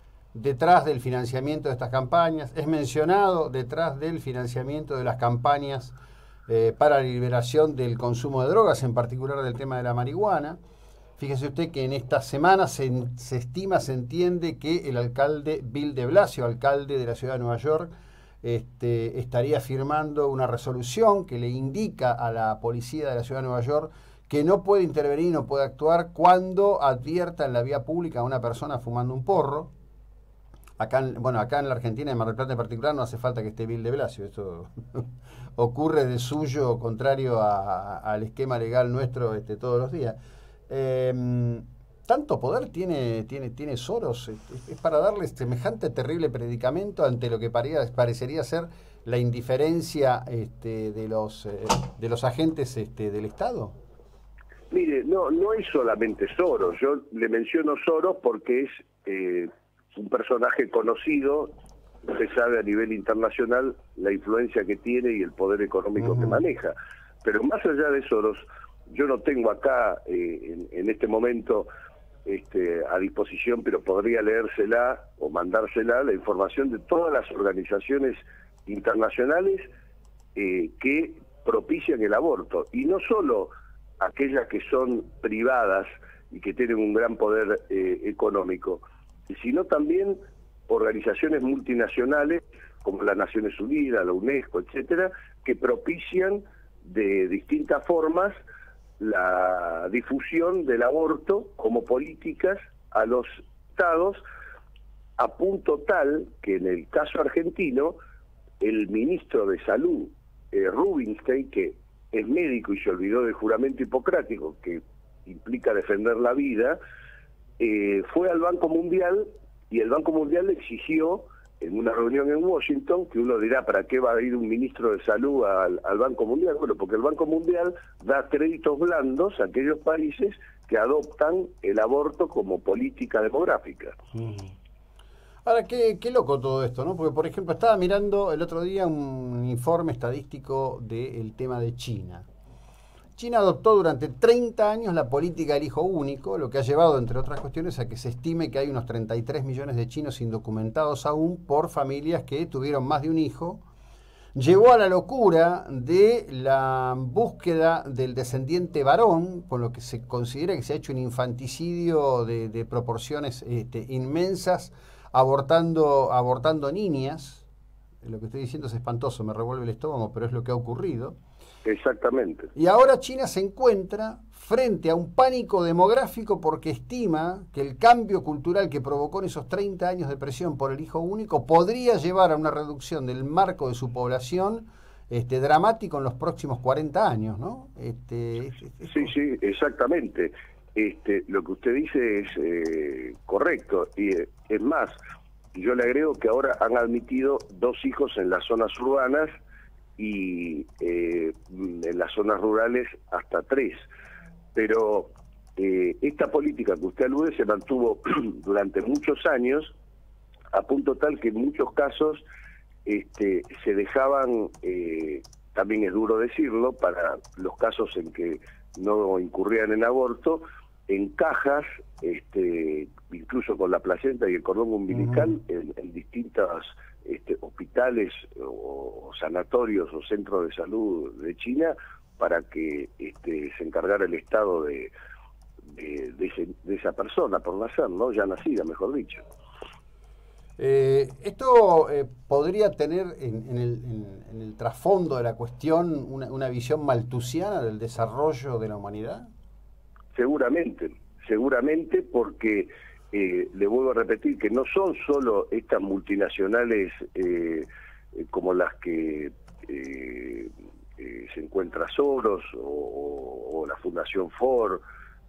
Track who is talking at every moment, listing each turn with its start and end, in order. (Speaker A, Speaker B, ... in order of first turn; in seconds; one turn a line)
Speaker A: 0.3-6.0
Speaker A: 6.5-10.6
Speaker A: 11.2-17.9
Speaker A: 18.4-29.7
Speaker A: 30.8-40.2
Speaker A: 40.7-53.8
Speaker B: 54.7-61.5
Speaker B: 62.1-71.7
Speaker B: 72.3-79.7
Speaker B: 80.3-98.3
Speaker B: 99.0-104.2
Speaker B: 105.2-108.0
Speaker B: 108.6-116.8
Speaker B: 117.6-134.0
Speaker A: 134.1-134.5
Speaker A: 135.4-142.3
Speaker A: 143.2-153.6
Speaker A: 154.3-167.5
Speaker A: 168.0-171.2
Speaker B: 171.7-172.5
Speaker A: 172.6-189.1
Speaker B: 188.8-195.0
Speaker B: 195.5-199.3
Speaker B: 200.0-203.9
Speaker B: 204.6-209.8
Speaker B: 210.5-212.2
Speaker B: 212.9-234.9
Speaker A: 224.9-225.3
Speaker B: 235.7-239.3
Speaker A: 240.6-249.3
Speaker B: 250.2-264.8